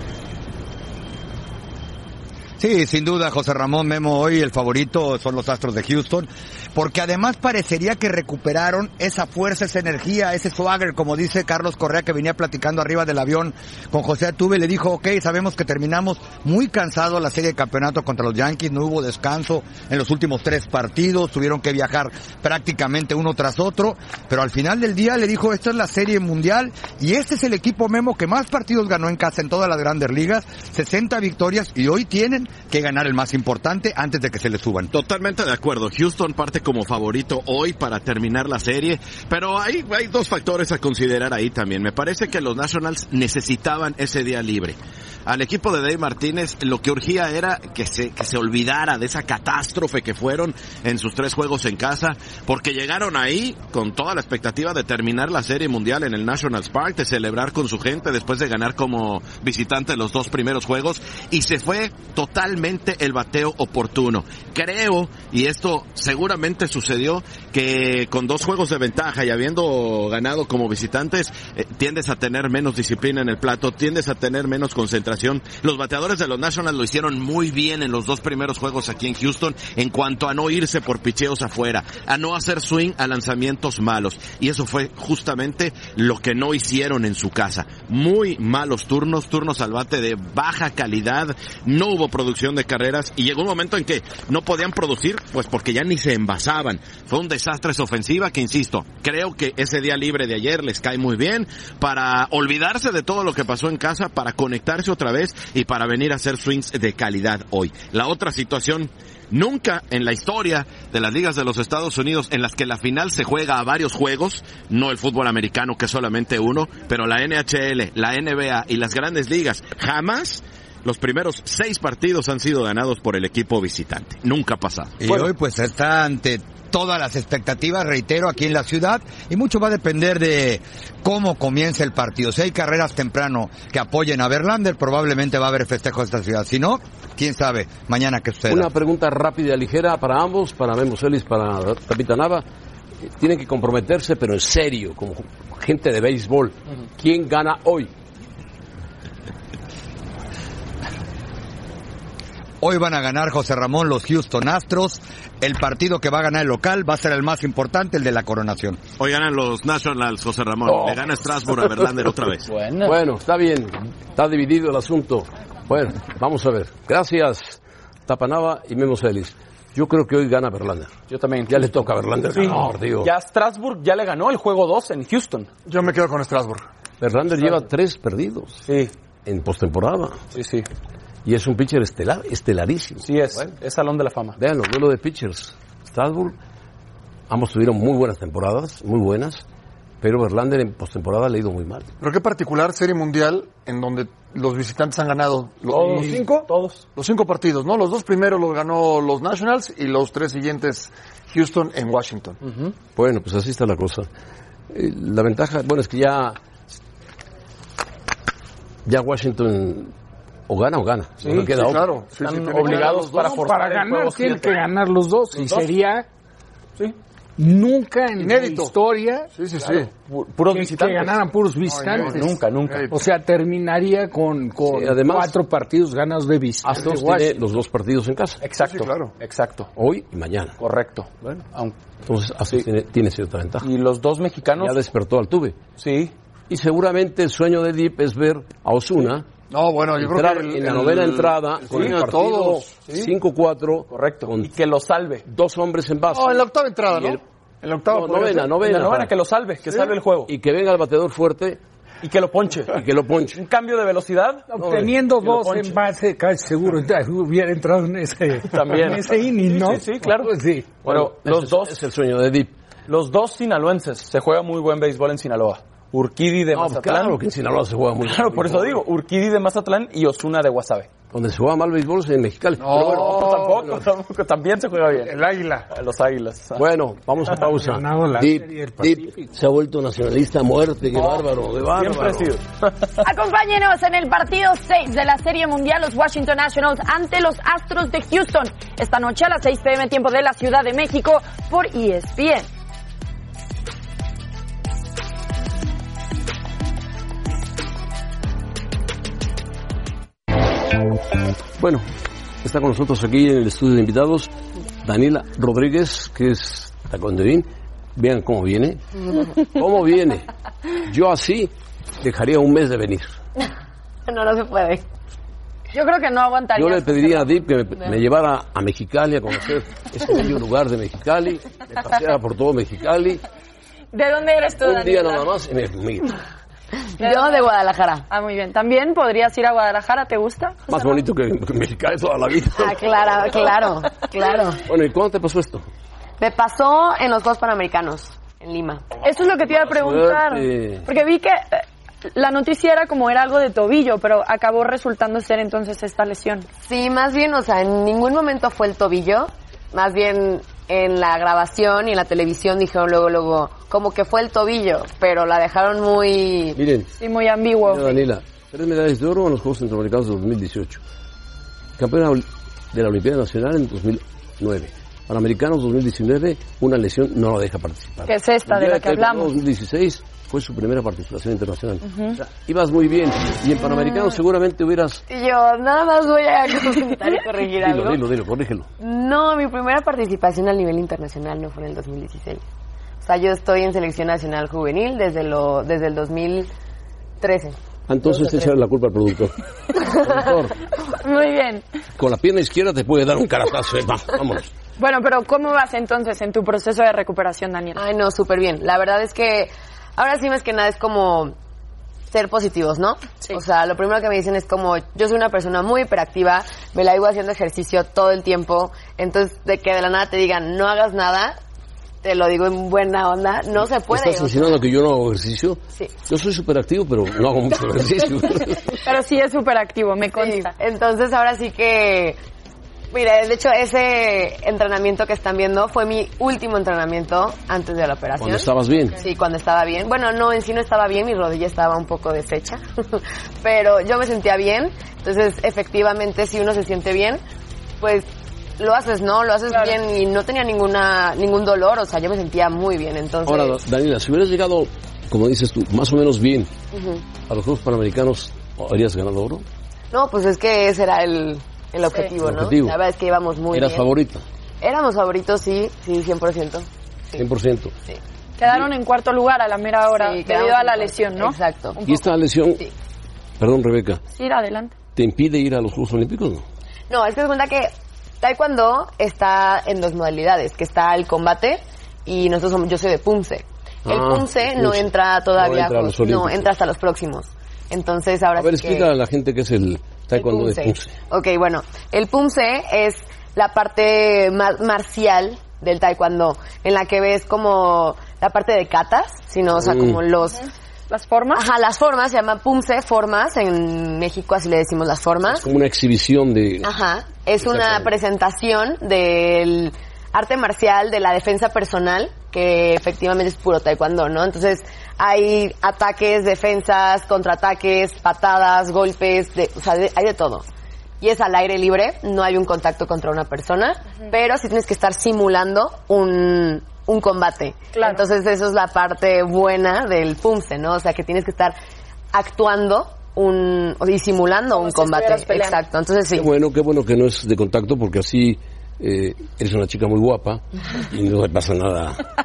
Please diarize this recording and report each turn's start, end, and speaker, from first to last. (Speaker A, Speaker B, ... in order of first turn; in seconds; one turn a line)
Speaker A: 2.6-34.9
Speaker B: 34.9-125.0
Speaker A: 125.0-138.7
Speaker C: 138.5-142.4
Speaker C: 143.0-147.9
Speaker A: 152.6-158.8
Speaker B: 159.0-162.5
Speaker D: 162.5-163.0
Speaker C: 162.8-170.9
Speaker D: 171.1-171.7
Speaker C: 171.5-173.1
Speaker D: 172.3-175.5
Speaker E: 175.7-176.6
Speaker C: 177.0-178.7
Speaker D: 178.7-178.9
Speaker C: 179.2-180.2
Speaker D: 180.3-180.7
Speaker C: 181.2-183.5
Speaker D: 183.0-184.4
Speaker C: 184.4-186.4
Speaker C: 187.3-189.4
Speaker C: 190.0-191.9
Speaker E: 192.0-202.4
Speaker D: 195.7-196.8
Speaker D: 202.4-202.7
Speaker C: 203.0-204.1
Speaker C: 204.7-206.4
Speaker C: 208.8-209.9
Speaker C: 210.5-211.9
Speaker D: 211.2-214.6
Speaker E: 211.3-213.3
Speaker F: 212.8-216.1
Speaker D: 215.3-215.7
Speaker F: 217.4-219.3
Speaker E: 218.2-218.8
Speaker E: 219.3-219.9
Speaker D: 219.6-221.2
Speaker F: 220.5-222.3
Speaker E: 221.7-223.0
Speaker D: 222.0-222.9
Speaker F: 222.9-227.4
Speaker C: 224.6-225.3
Speaker C: 226.6-228.4
Speaker D: 228.4-229.7
Speaker E: 228.6-229.1
Speaker C: 229.8-230.6
Speaker D: 230.6-231.8
Speaker C: 232.1-233.7
Speaker D: 233.6-234.8
Speaker C: 234.6-235.6
Speaker D: 235.8-236.1
Speaker C: 236.5-239.3
Speaker E: 239.5-242.8
Speaker C: 240.0-244.5
Speaker D: 241.7-242.0
Speaker D: 243.9-245.2
Speaker C: 245.3-247.2
Speaker E: 246.1-248.6
Speaker C: 247.9-249.1
Speaker D: 248.6-250.3
Speaker C: 250.3-251.6
Speaker D: 252.0-252.8
Speaker C: 252.7-253.4
Speaker D: 253.4-254.6
Speaker F: 254.5-260.7
Speaker C: 254.6-254.9
Speaker D: 255.2-255.8
Speaker D: 258.5-261.8
Speaker C: 260.8-262.5
Speaker D: 262.9-267.2
Speaker C: 266.5-268.8
Speaker D: 268.0-270.9
Speaker C: 271.1-273.8
Speaker E: 272.6-273.6
Speaker D: 272.8-275.1
Speaker E: 275.0-275.7
Speaker D: 275.7-276.6
Speaker C: 276.6-282.3
Speaker F: 277.4-279.2
Speaker D: 280.9-281.2
Speaker D: 281.7-282.9
Speaker G: 283.0-292.5
Speaker C: 301.6-301.9
Speaker C: 302.4-304.3
Speaker C: 304.8-308.8
Speaker C: 309.4-310.3
Speaker C: 310.9-313.1
Speaker H: 314.1-314.8
Speaker G: 315.7-317.2
Speaker C: 316.6-323.2
Speaker G: 323.9-325.3
Speaker C: 324.6-326.2
Speaker H: 327.0-328.1
Speaker G: 327.0-327.4
Speaker G: 328.1-330.9
Speaker C: 330.7-333.5
Speaker H: 332.6-334.6
Speaker C: 334.7-335.7
Speaker H: 336.2-338.9
Speaker G: 339.0-346.5
Speaker C: 339.4-340.9
Speaker H: 346.6-356.6
Speaker C: 356.6-356.9
Speaker G: 357.0-358.0
Speaker C: 357.6-360.8
Speaker C: 361.8-375.0
Speaker G: 368.1-369.3
Speaker G: 371.9-372.2
Speaker H: 375.1-378.0
Speaker C: 377.6-378.7
Speaker H: 378.8-382.4
Speaker H: 383.0-386.5
Speaker H: 387.2-388.5
Speaker C: 387.9-390.6
Speaker H: 390.0-390.3
Speaker G: 391.0-391.6
Speaker C: 392.0-394.5
Speaker G: 394.8-397.8
Speaker H: 397.8-401.4
Speaker H: 402.1-411.4
Speaker H: 412.0-414.6
Speaker C: 413.9-418.8
Speaker G: 418.8-420.5
Speaker H: 420.1-422.2
Speaker H: 422.9-437.2
Speaker C: 428.2-429.0
Speaker H: 437.8-443.6
Speaker C: 443.3-446.5
Speaker H: 446.7-447.0
Speaker C: 447.3-449.5
Speaker H: 449.9-453.9
Speaker C: 452.2-452.8
Speaker C: 453.5-454.2
Speaker H: 454.6-457.2
Speaker C: 457.2-457.7
Speaker G: 458.4-462.0
Speaker H: 459.9-461.8
Speaker C: 461.8-462.6
Speaker C: 463.4-464.0
Speaker G: 464.1-464.7
Speaker C: 465.0-466.4
Speaker H: 466.9-478.9
Speaker C: 473.9-476.5
Speaker C: 478.4-481.0
Speaker H: 480.1-490.4
Speaker C: 489.5-490.0
Speaker G: 490.9-491.4
Speaker H: 491.3-495.4
Speaker C: 495.3-496.7
Speaker H: 496.6-510.4
Speaker C: 497.4-497.9
Speaker H: 511.0-521.6
Speaker G: 517.7-518.0
Speaker H: 522.1-526.3
Speaker G: 524.5-525.6
Speaker C: 526.1-532.0